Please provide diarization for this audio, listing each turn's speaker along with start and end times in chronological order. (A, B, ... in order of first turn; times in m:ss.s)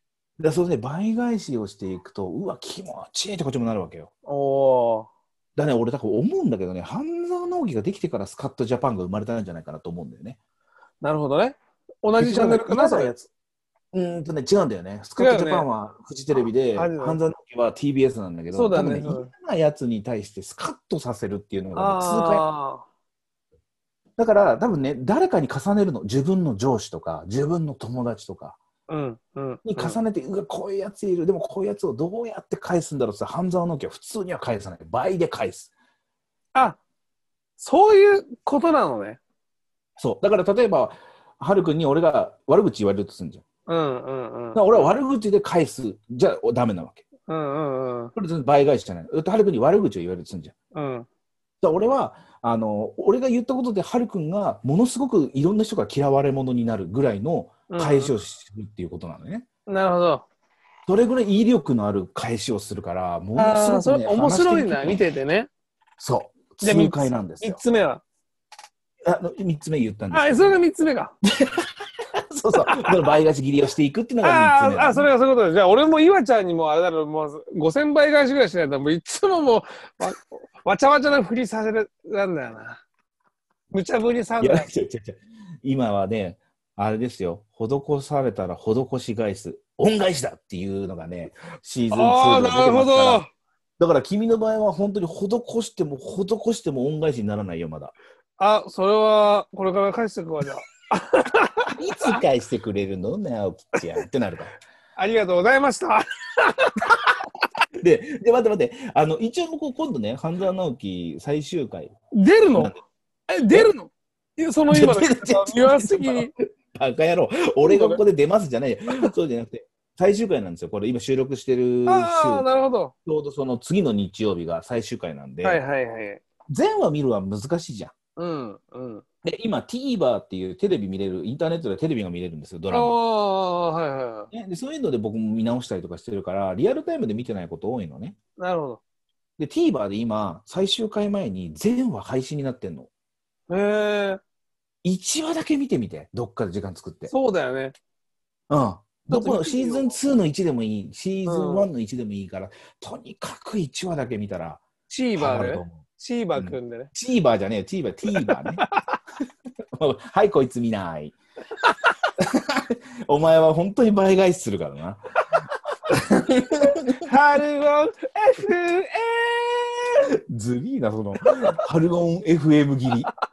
0:00.4-0:04.1 A
0:04.2-0:05.1 B
0:05.6-0:10.4 A
0:11.0-0:13.1 B
0:12.2-0:13.3 A
0:13.9-0:22.5 A
0:15.2-0:15.7 B
0:16.7-0:17.2 B
0:18.5-0:19.3 B
0:21.7-0:22.8 B
0:24.2-0:28.6 A
0:28.9-0:30.0 B
0:29.6-0:35.7 A
0:36.5-0:36.8 B
0:37.6-0:39.2 B
0:40.0-0:43.4 A
0:43.7-0:44.9 B
0:44.5-0:47.0 A
0:47.3-0:48.1 B
0:48.2-0:50.5 A
0:50.7-0:51.1 B
0:51.6-0:59.4 A
0:57.7-0:58.1 B
0:59.7-1:00.2 B
1:00.9-1:05.0 A
1:03.4-1:05.5 B
1:06.0-1:07.6 A
1:06.6-1:08.0 B
1:09.0-1:10.6 A
1:10.1-1:11.1 B
1:11.2-1:15.1 A
1:14.2-1:22.8 B
1:23.7-1:24.7 B
1:24.4-1:33.3 A
1:31.9-1:33.3 B
1:33.8-1:37.9 A
1:38.4-1:42.2 B
1:41.8-1:44.5 A
1:45.0-1:46.9 B
1:47.8-1:51.9 A
1:52.1-1:52.7 B
1:53.3-1:56.3 B
1:54.7-2:02.5 A
1:57.6-1:58.0 B
2:01.9-2:02.9 B
2:03.0-2:05.6 A
2:05.4-2:06.2 B
2:06.5-2:07.9 A
2:08.2-2:09.0 B
2:09.2-2:12.9 A
2:12.7-2:14.3 B
2:14.3-2:18.2 A
2:18.4-2:18.8 B
2:19.4-2:22.9 A
2:23.5-2:24.2 B
2:24.8-2:27.1 A
2:27.1-2:27.7 B
2:28.5-2:34.6 A
2:29.1-2:30.0 B
2:31.2-2:31.7 B
2:34.9-2:36.9 B
2:35.2-2:35.8 A
2:36.3-2:38.6 A
2:38.3-2:38.8 B
2:39.8-2:41.2 A
2:42.2-2:45.1 A
2:45.9-2:47.0 A
2:47.0-2:50.0 B
2:50.3-2:53.1 A